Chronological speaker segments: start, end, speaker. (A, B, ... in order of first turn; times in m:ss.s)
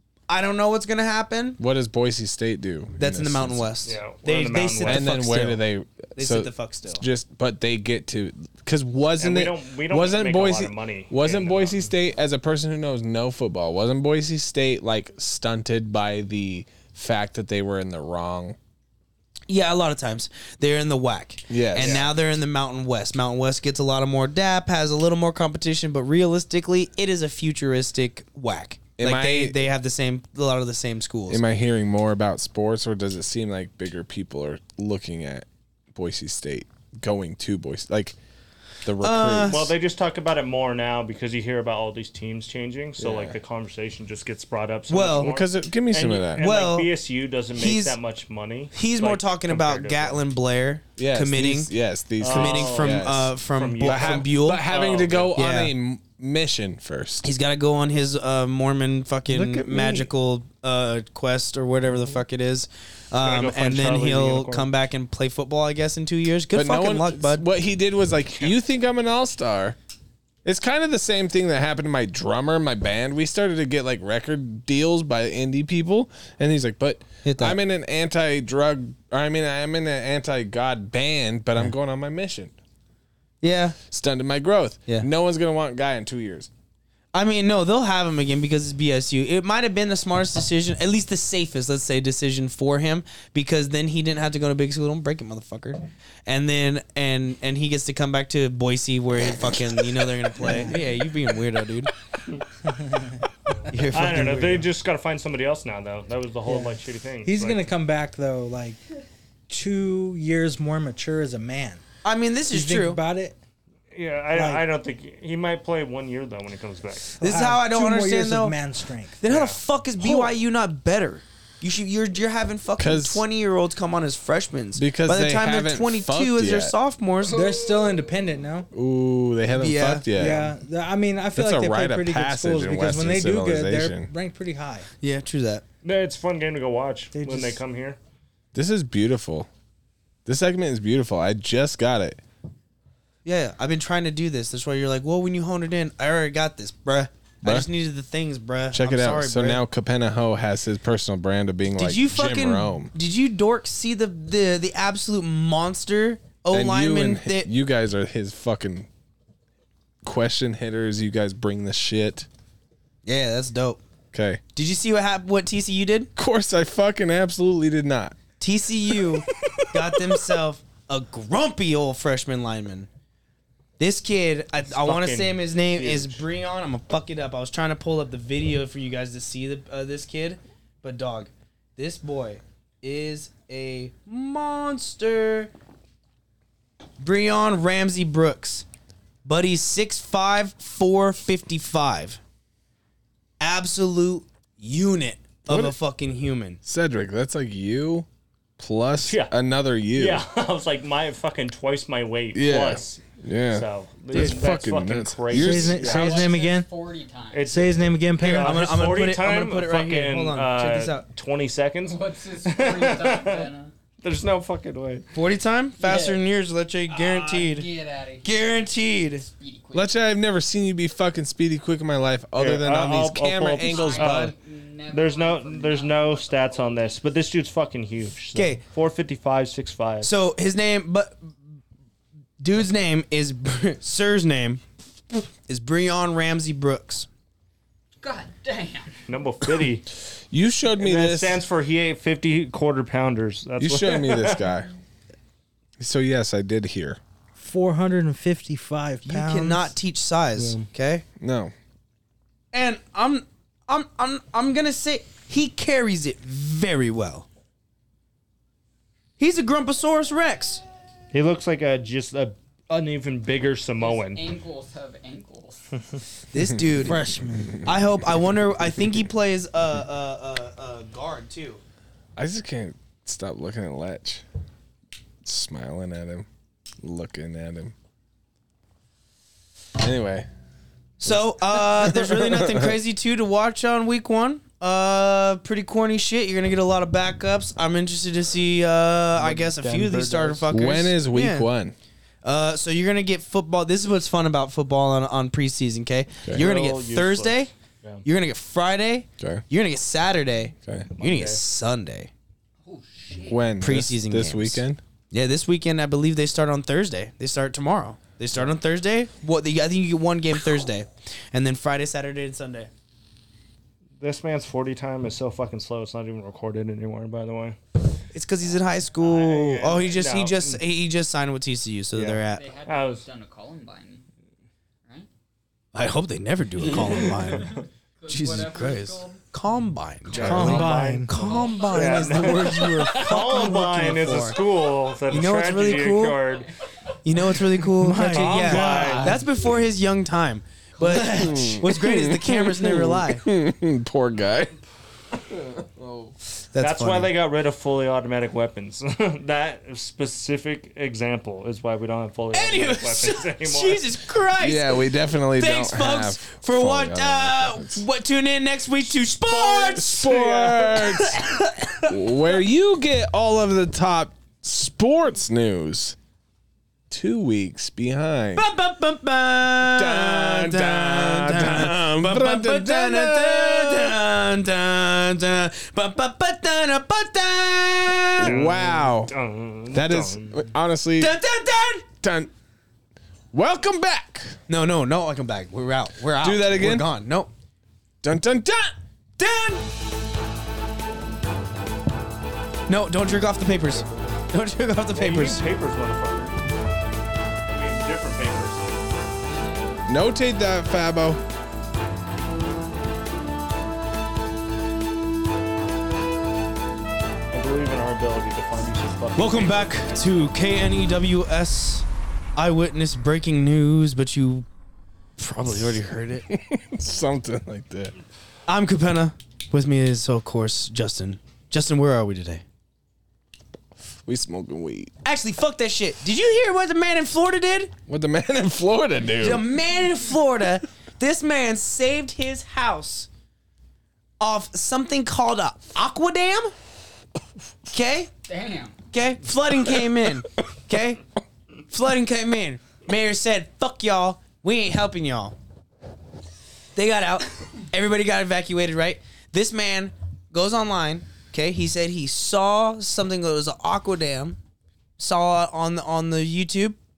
0:00.3-0:01.6 A
0:01.6-0:03.7 B
0:03.0-0:05.6 A
0:03.8-0:05.1 C
0:04.8-0:18.6 B
0:06.2-0:07.0 A
0:09.2-0:11.9 C
0:19.5-0:31.4 A
0:21.5-0:22.1 B
0:21.8-0:22.1 C
0:29.0-0:29.6 B
0:31.3-0:38.2 B
0:38.8-0:39.7 B
0:39.0-0:39.6 A
0:39.5-0:50.2 C
0:43.0-0:43.4 B
0:44.9-0:45.3 A
0:45.2-0:46.5 B
0:46.4-0:46.9 A
0:47.6-0:48.0 A
0:48.7-0:51.7 A
0:51.0-0:57.3 B
0:52.2-0:55.4 C
0:52.2-0:54.7 A
0:55.4-0:55.7 A
0:57.2-1:07.5 A
0:59.3-1:00.1 B
1:03.2-1:04.7 C
1:06.5-1:09.8 B
1:10.4-1:22.5 B
1:17.2-1:17.6 A
1:23.4-1:23.8 A
1:23.9-1:26.5 B
1:27.1-1:41.9 A
1:40.4-1:40.8 D
1:42.6-1:43.2 D
1:43.7-1:44.7 A
1:43.9-1:47.6 C
1:46.5-1:48.8 D
1:49.5-1:51.8 D
1:52.0-1:53.0 A
1:52.5-1:53.4 D
1:53.9-1:57.2 C
1:54.3-1:54.6 D
1:57.2-1:59.2 D
1:57.2-1:58.6 A
1:59.2-2:07.5 A
1:59.2-1:59.6 C
2:02.8-2:03.3 B
2:04.8-2:06.7 B
2:07.3-2:08.7 D
2:08.7-2:10.6 B
2:09.5-2:10.1 A
2:10.1-2:14.9 D
2:11.4-2:14.1 B
2:15.0-2:15.6 A
2:15.8-2:18.0 C
2:17.1-2:17.6 D
2:18.5-2:19.5 B
2:20.3-2:22.2 B
2:23.2-2:29.6 A
2:27.4-2:27.7 B
2:28.7-2:32.9 B
2:31.7-2:37.5 A
2:36.5-2:38.9 B
2:40.0-2:42.3 B
2:43.0-2:43.8 A
2:44.1-2:44.4 B
2:44.6-2:46.1 A
2:46.2-2:48.2 B
2:48.4-2:52.9 A
2:53.8-3:05.5 A
2:54.7-2:56.2 C
3:07.0-3:08.7 A
3:09.2-3:12.2 A
3:13.4-3:16.6 A
3:15.5-3:15.8 B
3:16.6-3:18.1 B
3:18.6-3:20.2 B
3:19.0-3:19.3 C
3:19.9-3:26.4 C
3:22.3-3:25.9 B
3:25.3-3:26.7 D
3:25.8-3:27.6 E
3:27.3-3:33.5 C
3:27.5-3:28.6 D
3:28.2-3:31.0 A
3:31.9-3:33.7 E
3:34.0-3:35.1 C
3:35.1-3:37.7 A
3:35.8-3:36.2 E
3:36.9-3:38.4 E
3:38.2-3:39.3 A
3:39.1-3:40.0 E
3:39.7-3:44.3 B
3:42.4-3:44.4 C
3:43.6-3:47.0 E
3:44.9-3:50.1 C
3:48.3-3:48.6 A
3:50.0-3:51.4 A
3:52.4-3:54.6 A
3:55.1-3:57.1 A
3:58.0-3:59.0 E
3:59.1-3:59.9 C
4:00.3-4:01.4 B
4:00.8-4:04.5 C
4:03.6-4:04.7 B
4:05.8-4:07.0 B
4:07.4-4:09.7 D
4:09.0-4:11.0 A
4:10.4-4:10.7 D
4:11.2-4:11.5 B
4:12.5-4:17.3 A
4:19.2-4:20.6 A
4:21.1-4:24.2 C
4:23.8-4:25.8 E
4:26.3-4:27.1 A
4:26.8-4:27.6 D
4:27.6-4:31.6 A
4:32.2-4:34.2 B
4:35.2-4:36.3 B
4:36.8-4:37.7 B
4:39.8-4:40.3 B
4:41.0-4:51.5 A
4:41.1-4:42.8 B
4:49.2-4:50.5 C
4:50.5-4:51.8 B
4:52.2-4:57.5 A
4:56.3-4:58.0 C
4:58.0-5:02.1 A
5:01.0-5:01.4 C
5:02.6-5:03.4 E
5:03.3-5:04.8 B
5:03.6-5:12.7 A
5:14.0-5:17.6 C
5:18.1-5:22.4 A
5:19.0-5:20.6 C
5:21.9-5:23.1 C
5:22.3-5:24.0 E
5:25.7-5:34.4 A
5:26.6-5:29.2 E
5:26.8-5:27.6 C
5:30.1-5:36.5 C
5:30.1-5:31.1 D
5:30.2-5:32.5 E
5:35.1-5:36.2 A
5:36.4-5:36.9 E
5:37.0-5:43.2 A
5:37.8-5:39.2 D
5:38.0-5:39.2 C
5:40.8-5:41.4 E
5:40.9-5:44.6 B
5:45.1-5:46.2 B
5:46.5-5:47.1 A
5:46.6-5:53.8 C
5:52.3-6:02.0 A
5:54.4-5:57.8 B
5:59.3-6:00.6 C
5:59.7-6:01.2 B
6:01.9-6:06.0 B
6:06.9-6:08.4 B
6:08.4-6:18.3 A
6:09.6-6:14.0 B
6:18.2-6:19.1 B
6:18.2-6:20.4 C
6:19.7-6:21.2 B
6:21.0-6:21.9 A
6:22.0-6:22.3 B
6:23.3-6:24.4 B
6:24.5-6:27.3 A
6:26.2-6:26.8 B
6:28.0-6:28.7 B
6:29.2-6:29.6 A
6:32.7-6:35.4 A
6:34.9-6:36.4 C
6:37.5-6:38.8 C
6:39.5-6:39.8 E
6:39.9-6:41.2 B
6:47.3-6:49.7 C
6:49.2-6:54.5 A
6:55.2-6:56.3 A
6:56.3-6:58.0 B
6:58.5-7:02.4 A
7:04.0-7:04.9 B
7:05.0-7:07.7 A
7:07.9-7:09.4 B
7:09.2-7:13.1 A
7:14.2-7:16.5 A
7:17.7-7:18.1 A
7:18.2-7:18.8 E
7:18.9-7:21.0 A
7:21.7-7:25.4 A
7:26.8-7:34.4 A
7:35.0-7:36.8 A